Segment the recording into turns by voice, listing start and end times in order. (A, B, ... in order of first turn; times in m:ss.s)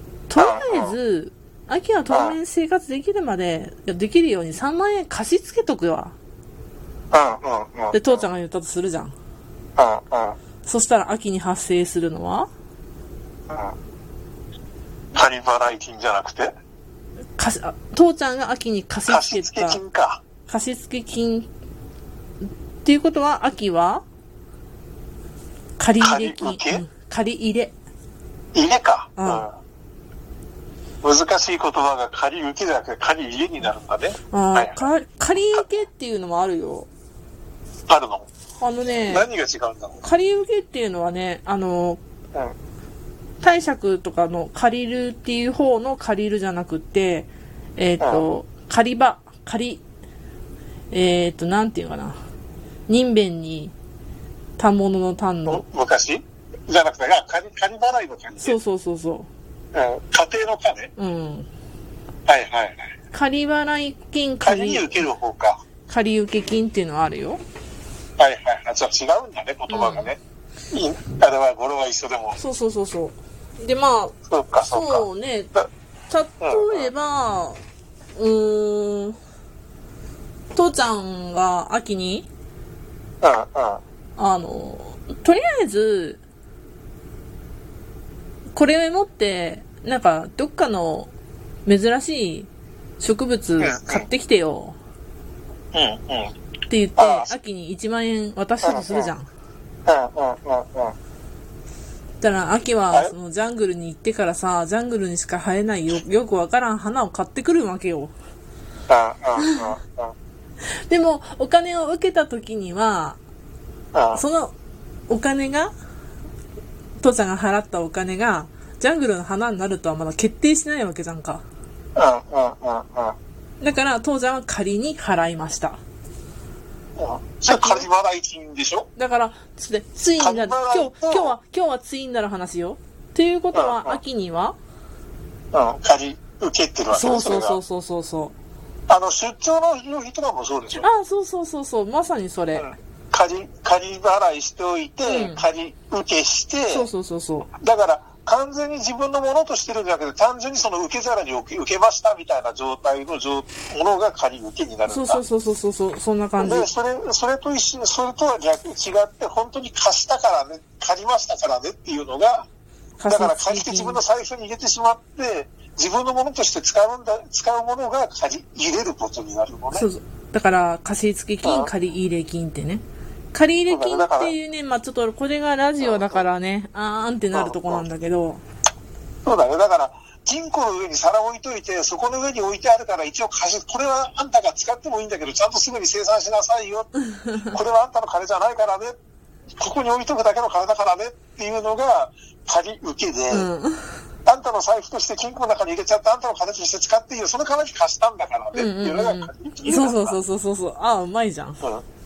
0:00.3-0:06.1 A
0:00.4-0:00.9 B
0:02.1-0:02.4 B
0:07.1-0:08.2 B
0:07.9-0:09.1 A
0:09.8-0:10.4 B
0:10.6-0:12.5 A
0:13.5-0:13.7 B
0:15.1-0:16.5 B
0:17.4-0:19.8 A
0:19.1-0:20.2 B
0:20.5-0:21.5 A
0:22.8-0:24.0 A
0:25.8-0:27.7 A
0:26.0-0:26.8 B
0:28.5-0:29.5 B
0:29.2-0:29.5 A
0:31.0-0:34.8 B
0:34.3-0:36.9 A
0:37.9-0:38.3 B
0:38.6-0:39.3 A
0:39.0-0:40.0 B
0:40.0-0:42.0 A
0:43.4-0:49.8 A
0:48.0-0:48.2 B
0:50.9-0:52.2 A
0:52.9-0:53.7 A
0:54.6-0:55.6 A
0:55.4-0:58.6 B
0:58.4-0:59.3 A
0:59.7-1:00.9 B
1:01.0-1:01.5 A
1:02.3-1:02.8 B
1:03.1-1:05.0 A
1:04.4-1:05.6 B
1:05.9-1:07.4 A
1:08.2-1:10.2 B
1:09.7-1:10.1 A
1:10.7-1:12.4 B
1:12.4-1:14.1 A
1:14.3-1:15.7 B
1:14.7-1:15.5 A
1:16.1-1:17.6 A
1:16.4-1:16.9 B
1:18.2-1:19.2 A
1:20.5-1:22.3 A
1:23.2-1:23.8 B
1:24.2-1:26.2 A
1:28.5-1:31.1 A
1:31.6-1:32.5 A
1:33.0-1:34.8 A
1:33.6-1:34.0 B
1:35.7-1:36.3 B
1:36.7-1:39.3 A
1:37.0-1:37.3 B
1:38.6-1:39.1 B
1:39.8-1:40.9 B
1:42.2-1:48.1 A
1:48.9-1:50.1 B
1:49.4-1:49.7 A
1:50.9-1:53.2 A
1:53.9-1:54.2 B
1:54.1-1:54.5 A
1:55.1-1:55.7 A
1:57.0-2:01.4 A
2:02.0-2:03.2 B
2:03.6-2:05.8 A
2:07.0-2:08.9 B
2:07.5-2:07.9 A
2:09.0-2:14.6 A
2:10.2-2:11.3 B
2:13.5-2:14.0 B
2:15.5-2:17.6 B
2:16.9-2:18.3 A
2:18.9-2:20.9 B
2:20.7-2:22.7 A
2:22.6-2:26.9 B
2:25.0-2:25.4 A
2:26.7-2:27.5 A
2:27.6-2:35.2 B
2:34.9-2:36.7 A
2:36.4-2:42.5 B
2:43.0-2:44.0 A
2:43.1-2:49.9 B
2:49.7-2:58.4 A
2:51.4-2:51.7 B
2:53.7-2:54.3 B
2:55.8-2:56.2 B
2:57.3-2:57.8 B
2:59.2-3:08.9 B
3:09.6-3:13.5 B
3:13.3-3:14.0 A
3:14.2-3:20.2 B
3:18.5-3:21.6 A